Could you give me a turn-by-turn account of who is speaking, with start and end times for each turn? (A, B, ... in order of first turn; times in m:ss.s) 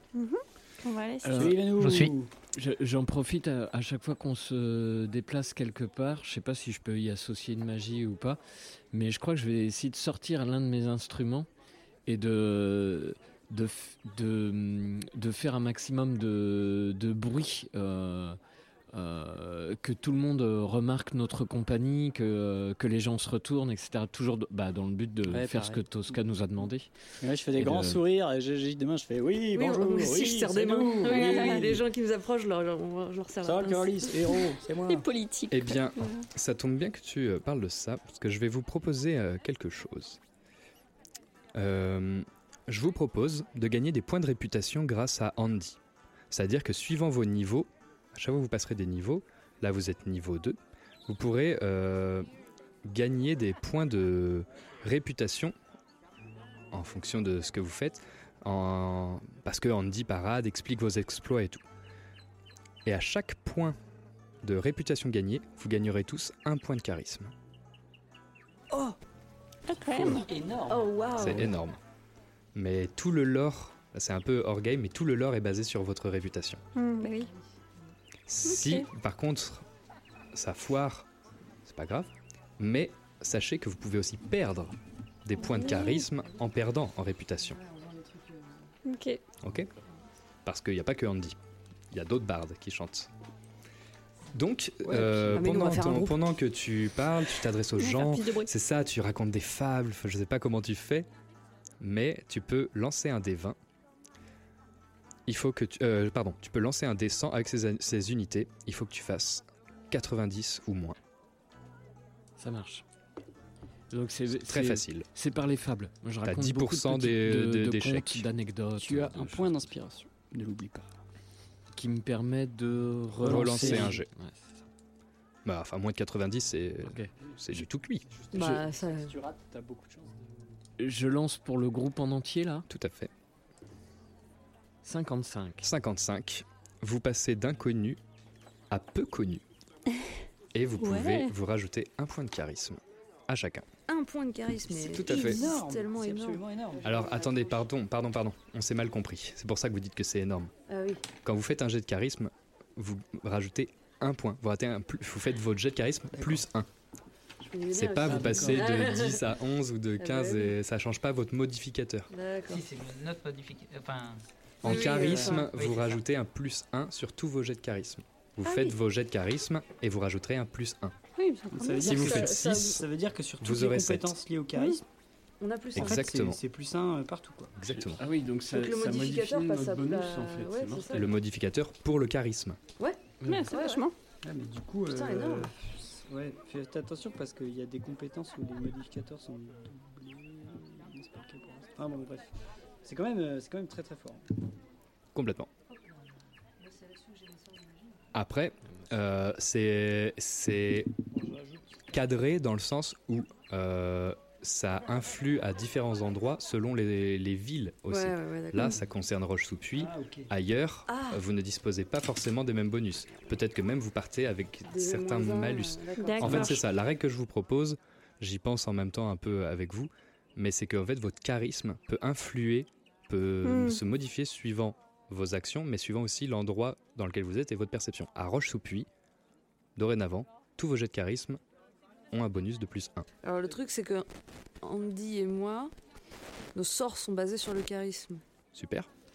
0:00.1-0:01.5 A
0:01.2-0:01.7 B
0:01.4-0:02.3 C
0:01.8-0:02.1 D
0:02.4-0:08.4 B
0:08.9-0:11.5 B
0:12.1-0:18.4 B
0:18.9-0:26.9 B
0:25.3-0:26.7 C
0:27.2-0:31.8 C
0:27.6-0:28.0 B
0:29.6-0:34.1 E
0:31.0-0:31.7 A
0:33.4-0:35.0 C
0:34.9-0:36.3 A
0:35.5-0:40.2 F
0:41.6-0:45.8 F
0:46.3-0:52.3 F
0:52.8-0:55.6 F
0:56.7-1:01.6 F
1:02.8-1:03.8 F
1:04.4-1:07.3 F
1:09.7-1:10.3 A
1:09.9-1:10.9 C
1:10.7-1:11.5 E
1:11.2-1:11.8 F
1:12.6-1:16.6 F
1:16.7-1:17.3 A
1:18.3-1:19.7 F
1:18.4-1:18.9 A
1:20.3-1:21.1 F
1:21.6-1:27.6 F
1:25.5-1:26.1 A
1:27.6-1:28.4 E
1:28.8-1:29.2 A
1:29.4-1:29.7 F
1:30.4-1:31.4 F
1:31.9-1:33.1 F
1:34.3-1:41.1 F
1:34.8-1:35.4 C
1:35.3-1:36.2 E
1:37.8-1:38.5 A
1:41.8-1:43.6 F
1:45.3-1:51.0 F
1:52.4-1:52.8 B
1:53.9-1:59.7 B
1:54.3-1:55.1 F
1:56.2-1:58.2 F
1:58.8-2:00.9 C
2:01.8-2:04.4 B
2:03.2-2:04.0 C
2:03.2-2:04.1 F
2:05.4-2:08.1 F
2:06.8-2:07.1 B
2:08.1-2:10.3 C
2:08.3-2:09.1 E
2:10.8-2:12.7 B
2:12.7-2:13.1 F
2:14.8-2:15.7 B
2:15.6-2:18.0 F
2:18.7-2:19.4 F
2:20.5-2:23.7 F
2:20.8-2:21.3 A
2:23.9-2:27.3 E
2:24.8-2:27.2 C
2:24.9-2:25.4 F
2:26.8-2:30.5 F
2:30.7-2:31.0 E
2:31.2-2:36.7 F
2:37.4-2:39.3 E
2:37.7-2:42.1 F
2:38.1-2:38.5 C
2:38.1-2:38.6 B
2:40.0-2:40.6 E
2:42.1-2:42.6 E
2:42.5-2:44.2 D
2:44.6-2:51.0 F
2:44.6-2:45.5 E
2:44.7-2:45.4 C
2:48.4-2:48.7 E
2:51.2-2:51.9 A
2:51.5-2:54.8 C
2:51.7-2:52.8 E
2:51.8-2:52.8 F
2:53.4-2:54.2 F
2:55.4-2:56.1 E
2:55.8-2:56.4 F
2:55.8-2:57.5 C
2:57.6-2:58.0 F
2:57.8-3:01.1 B
2:58.5-3:01.1 E
3:00.9-3:02.6 F
3:02.8-3:03.9 E
3:03.2-3:03.9 A
3:04.2-3:12.3 C
3:04.9-3:05.5 E
3:12.8-3:14.3 C
3:15.1-3:15.5 F
3:16.9-3:17.6 E
3:18.1-3:20.9 F
3:21.2-3:21.8 C
3:21.9-3:48.9 F
3:27.9-3:28.8 E
3:29.8-3:30.3 C
3:30.9-3:31.2 E
3:34.7-3:36.6 E
3:36.0-3:36.6 A
3:43.4-3:43.8 A
3:49.8-3:51.4 F
3:52.1-3:53.1 F
3:53.2-3:54.1 E
3:54.6-3:55.7 E
3:56.6-3:58.2 E
3:58.5-3:58.9 F